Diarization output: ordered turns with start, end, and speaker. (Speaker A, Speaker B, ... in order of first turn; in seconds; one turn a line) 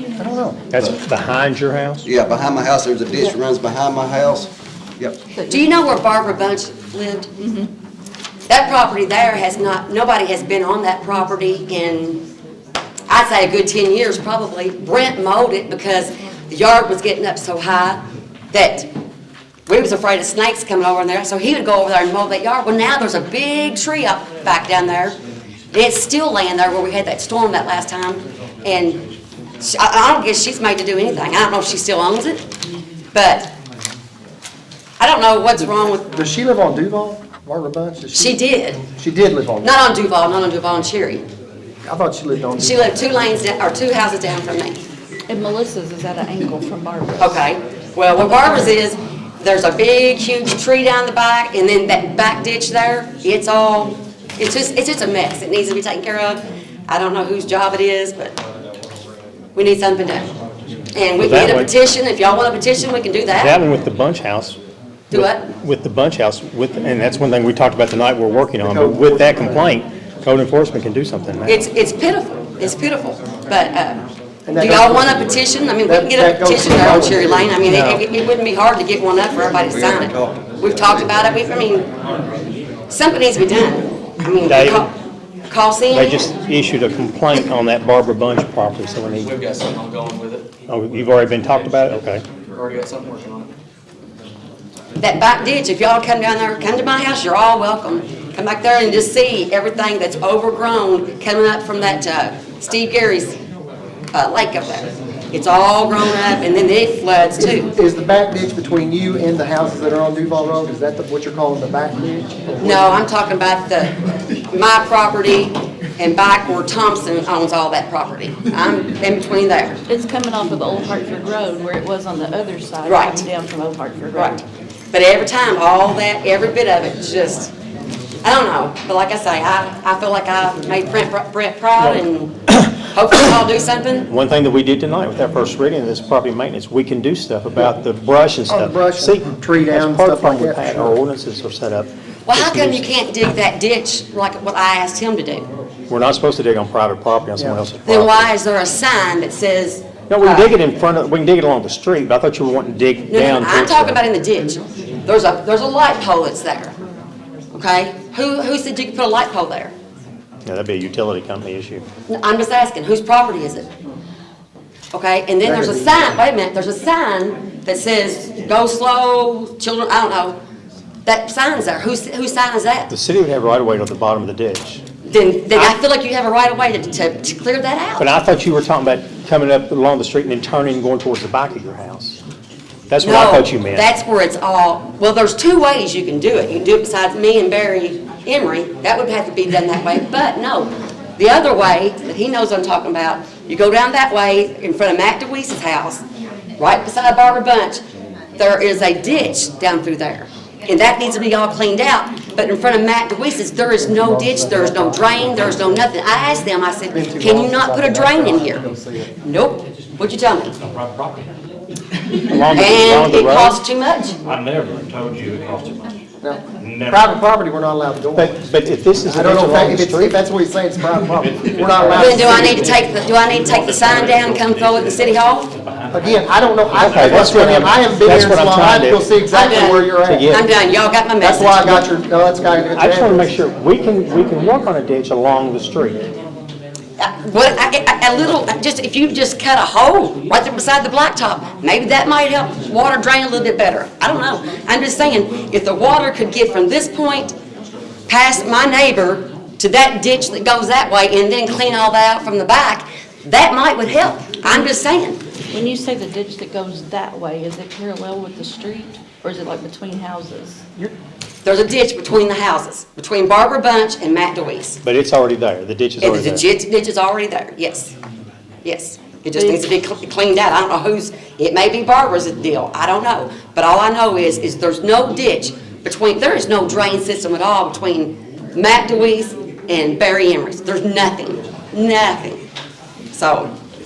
Speaker A: 0.2-0.7
Speaker B: 0.7-2.1
Speaker C: 2.0-5.2
Speaker D: 5.3-5.7
Speaker E: 5.5-7.3
Speaker D: 7.4-7.7
Speaker E: 8.5-12.2
Speaker E: 13.1-18.9
Speaker E: 19.7-25.2
Speaker E: 25.7-29.0
Speaker E: 29.6-32.4
Speaker E: 33.1-33.5
Speaker E: 35.0-36.1
Speaker A: 36.1-38.4
Speaker E: 38.1-38.8
Speaker A: 39.0-39.7
Speaker E: 39.6-41.2
Speaker A: 41.9-43.0
Speaker E: 42.6-44.8
Speaker D: 45.3-47.5
Speaker E: 47.2-58.3
Speaker E: 59.5-60.2
Speaker E: 60.9-63.5
Speaker B: 61.2-61.7
Speaker B: 63.3-64.6
Speaker B: 65.1-71.6
Speaker E: 65.1-65.5
Speaker A: 68.6-69.7
Speaker E: 71.5-74.0
Speaker A: 74.5-77.6
Speaker E: 74.5-81.9
Speaker B: 77.7-78.0
Speaker C: 79.5-81.0
Speaker E: 82.9-84.9
Speaker B: 84.4-84.9
Speaker E: 85.5-86.3
Speaker B: 85.9-89.3
Speaker F: 89.2-90.5
Speaker B: 90.7-92.2
Speaker F: 92.5-93.5
Speaker E: 95.0-103.3
Speaker E: 104.1-107.7
Speaker A: 107.4-113.0
Speaker E: 112.6-113.9
Speaker E: 114.5-119.8
Speaker D: 119.9-124.4
Speaker E: 122.8-123.2
Speaker E: 124.1-124.4
Speaker E: 124.9-127.5
Speaker E: 128.2-134.1
Speaker B: 131.8-132.6
Speaker B: 134.1-142.9
Speaker A: 138.5-141.0
Speaker E: 142.2-145.4
Speaker B: 145.9-148.3
Speaker E: 147.8-150.5
Speaker B: 150.1-154.0
Speaker E: 153.1-156.7
Speaker E: 157.5-159.7
Speaker B: 160.4-161.8
Speaker E: 162.1-163.7
Speaker E: 164.9-170.4
Speaker A: 165.4-166.1
Speaker E: 171.1-172.9
Speaker B: 172.9-174.8
Speaker E: 175.1-178.1
Speaker B: 175.5-175.8
Speaker B: 178.0-182.2
Speaker B: 182.9-183.9
Speaker E: 183.0-196.0
Speaker E: 196.6-197.8
Speaker E: 198.4-208.6
Speaker A: 203.8-205.8
Speaker A: 206.9-209.1
Speaker E: 209.2-210.5
Speaker G: 210.6-211.3
Speaker B: 212.3-213.6
Speaker E: 212.5-214.2
Speaker G: 214.2-215.9
Speaker A: 216.2-218.3
Speaker G: 216.6-217.1
Speaker B: 218.1-220.2
Speaker A: 219.0-222.8
Speaker G: 221.1-227.8
Speaker E: 221.9-225.4
Speaker A: 225.9-230.3
Speaker B: 226.7-229.1
Speaker E: 229.3-231.8
Speaker B: 230.0-230.4
Speaker A: 231.2-233.3
Speaker B: 232.7-236.1
Speaker E: 237.0-247.3
Speaker E: 248.1-255.2
Speaker D: 255.5-260.6
Speaker E: 261.4-264.8
Speaker B: 264.8-266.4
Speaker E: 266.0-267.9
Speaker E: 268.6-282.4
Speaker D: 269.3-269.7
Speaker E: 283.1-283.5